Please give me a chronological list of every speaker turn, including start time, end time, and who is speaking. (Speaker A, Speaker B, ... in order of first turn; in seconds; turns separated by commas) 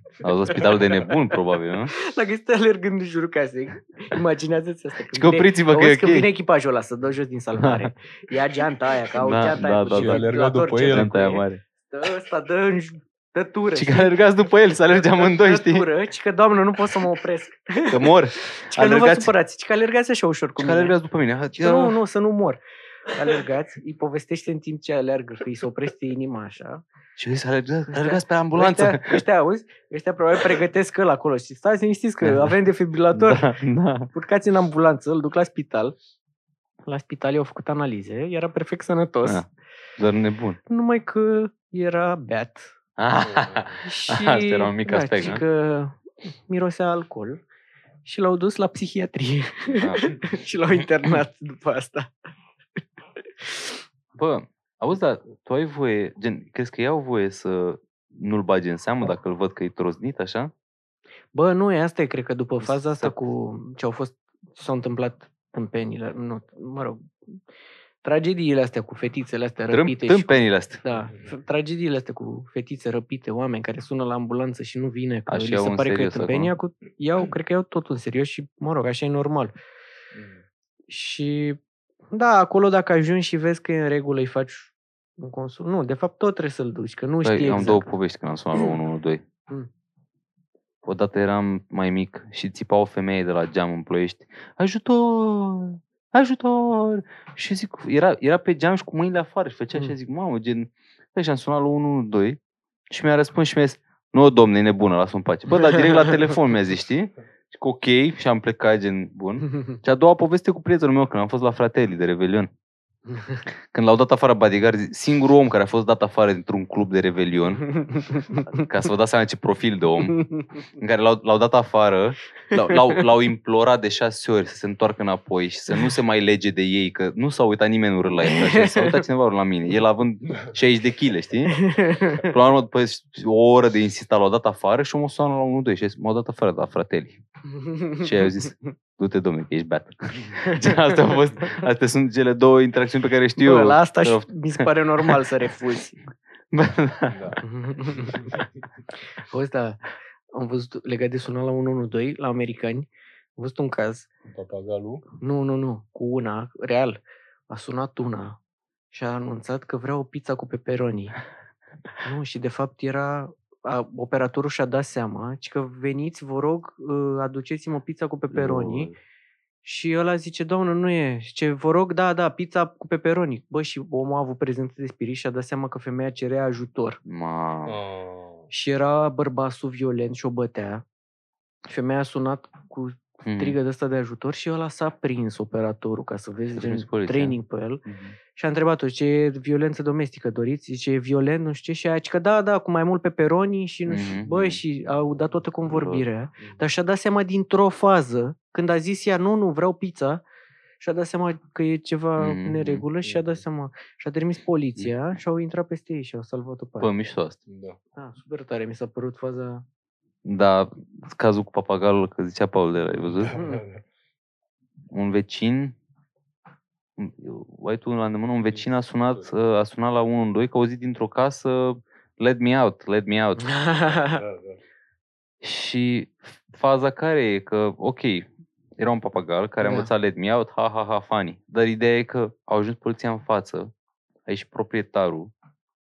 Speaker A: 0.2-1.9, Speaker B: 0.5-1.3, Speaker B: 1.9-14.1, Speaker A: 5.1-6.3, Speaker A: 7.6-7.9, Speaker A: 9.1-10.3, Speaker C: 9.9-11.2, Speaker A: 10.9-11.6, Speaker A: 13.8-15.9, Speaker B: 14.9-21.0, Speaker A: 17.9-19.3, Speaker A: 20.6-22.0, Speaker B: 21.5-26.8, Speaker A: 27.2-29.2, Speaker B: 27.9-33.5, Speaker A: 32.2-32.5, Speaker A: 33.1-34.1, Speaker B: 34.1-36.0, Speaker B: 36.9-39.4, Speaker A: 40.0-40.6, Speaker B: 40.7-42.7, Speaker A: 43.0-45.4, Speaker C: 43.2-43.8, Speaker B: 43.8-47.4, Speaker B: 48.0-52.1, Speaker A: 49.7-50.2, Speaker B: 53.4-53.7, Speaker A: 54.1-60.5, Speaker B: 61.3-67.4, Speaker A: 62.6-63.2, Speaker B: 68.0-79.5, Speaker A: 69.7-70.8, Speaker A: 75.3-76.5, Speaker B: 80.9-81.6, Speaker B: 82.1-87.9, Speaker A: 87.2-89.2, Speaker A: 90.8-102.4, Speaker A: 102.9-112.5, Speaker B: 113.1-113.4, Speaker A: 113.7-117.8, Speaker B: 117.8-118.4, Speaker A: 118.5-120.2, Speaker A: 120.8-137.2, Speaker B: 128.2-129.1, Speaker B: 131.6-132.2, Speaker B: 137.5-138.4, Speaker A: 138.0-145.2, Speaker B: 140.5-140.9, Speaker B: 143.4-146.0, Speaker A: 146.5-147.4, Speaker C: 147.1-147.4, Speaker B: 147.4-148.4, Speaker B: 149.2-154.1, Speaker C: 154.3-155.0, Speaker B: 155.2-158.4, Speaker B: 158.9-161.2, Speaker B: 162.0-168.9, Speaker A: 168.3-168.9, Speaker B: 169.6-177.0, Speaker A: 177.1-177.8, Speaker C: 177.7-178.5, Speaker B: 178.5-180.8, Speaker B: 181.7-187.8, Speaker A: 183.2-183.6, Speaker A: 186.6-188.2, Speaker B: 188.3-200.2, Speaker A: 193.9-194.6, Speaker A: 195.7-196.1, Speaker B: 200.8-206.9, Speaker A: 202.2-202.8, Speaker C: 203.0-203.3, Speaker A: 206.8-207.4, Speaker C: 207.5-207.8, Speaker B: 208.0-209.6, Speaker A: 210.2-213.3, Speaker C: 213.0-213.8, Speaker B: 213.3-213.6, Speaker A: 214.9-215.8, Speaker A: 217.0-223.5, Speaker C: 218.5-219.3, Speaker B: 223.4-224.2, Speaker C: 224.0-224.6, Speaker A: 225.4-233.7, Speaker B: 229.6-229.9, Speaker A: 234.3-235.3